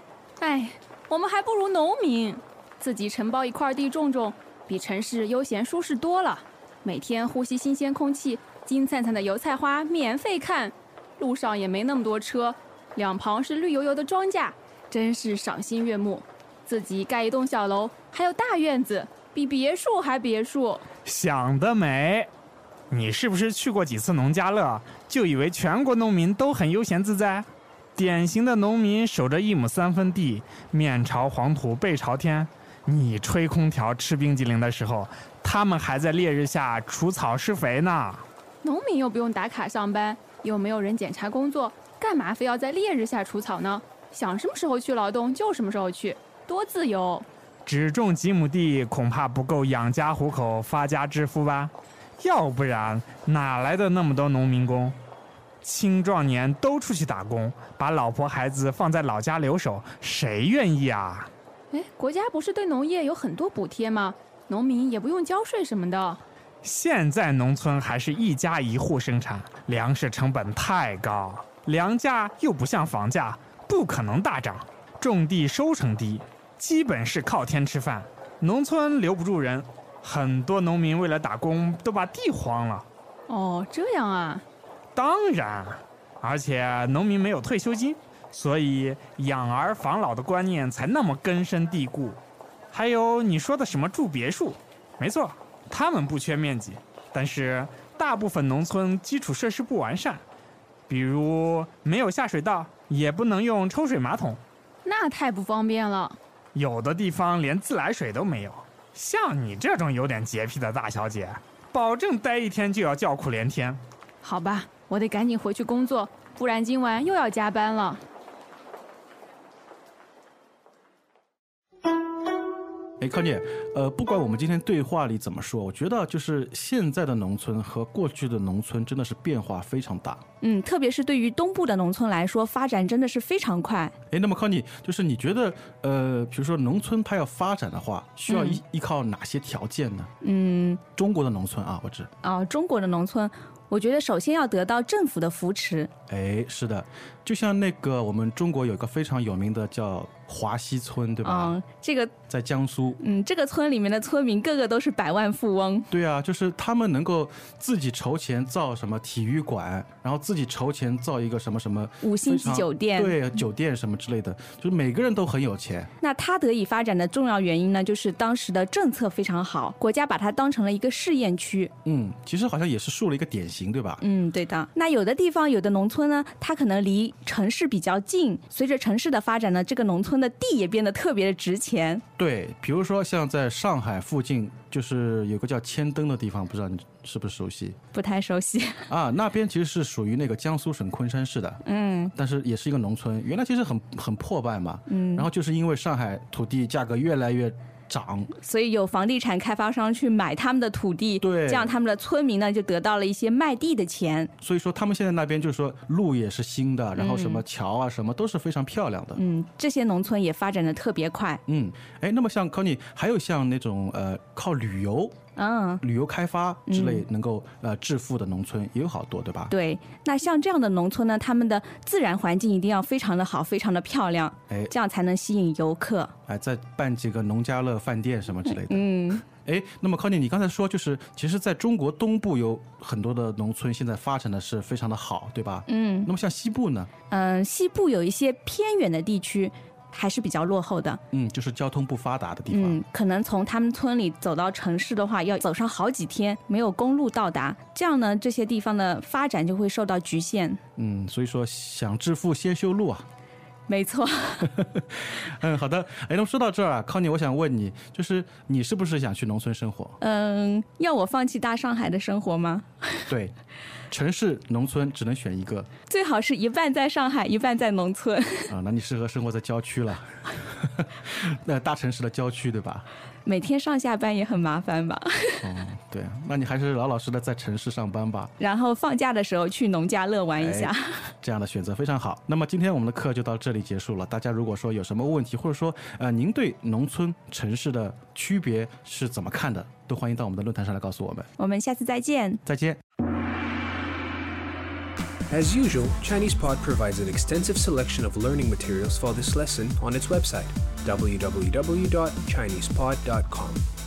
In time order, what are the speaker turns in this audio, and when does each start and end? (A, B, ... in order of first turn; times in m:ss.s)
0:00.4-0:20.8 A
0:21.0-0:22.3 B
0:22.9-0:38.2 B
0:38.6-0:47.2 A
0:47.6-0:55.0 B
0:55.6-1:01.3 B
1:01.7-1:06.2 A
1:06.6-1:22.9 B
1:23.3-1:24.4 A
1:25.0-1:32.2 B
1:32.7-1:40.2 B
1:40.9-1:44.4 B
1:44.8-1:46.2 A
1:46.5-1:53.8 B
1:54.2-1:58.0 A
2:03.0-2:10.2 C
2:10.4-2:13.9 D
2:14.1-2:20.1 C
2:18.3-2:18.6 D
2:20.2-2:20.8 D
2:21.0-2:22.1 C
2:22.2-2:25.9 D
2:26.1-2:31.6 C
2:31.2-2:32.1 D
2:32.3-2:33.0 C
2:33.0-2:35.9 D
2:35.9-2:45.9 C
2:42.0-2:43.2 D
2:46.0-2:51.7 D
2:51.8-2:54.0 C
2:54.0-3:02.0 D
3:02.2-3:07.8 C
3:07.9-3:08.9 D
3:08.9-3:11.6 C
3:11.6-3:12.1 D
3:12.2-3:18.3 C
3:14.9-3:15.3 D
3:18.4-3:24.3 D
3:21.2-3:21.7 C
3:24.4-3:29.2 C
3:27.0-3:27.4 D
3:29.2-3:31.4 D
3:31.5-3:35.2 C
3:35.4-3:35.8 D
3:35.8-3:39.5 C
3:36.7-3:37.0 D
3:39.5-3:46.1 D
3:46.3-3:56.9 C
3:48.5-3:49.2 D
3:55.7-3:56.1 D
3:57.1-4:01.0 D
4:01.1-4:02.8 C
4:02.5-4:10.6 D
4:10.8-4:13.1 C
4:13.7-4:14.6 D
4:14.5-4:20.0 C
4:20.0-4:23.0 D
4:23.1-4:23.3 C
4:23.9-4:25.7 C
4:25.9-4:28.5 D
4:28.5-4:32.9 C
4:33.2-4:35.5 D
4:35.4-4:38.3 C
4:38.4-4:41.1 D
4:40.4-4:51.3 C
4:51.4-4:52.4 D
4:52.5-4:52.8 C
4:55.3-5:03.6 E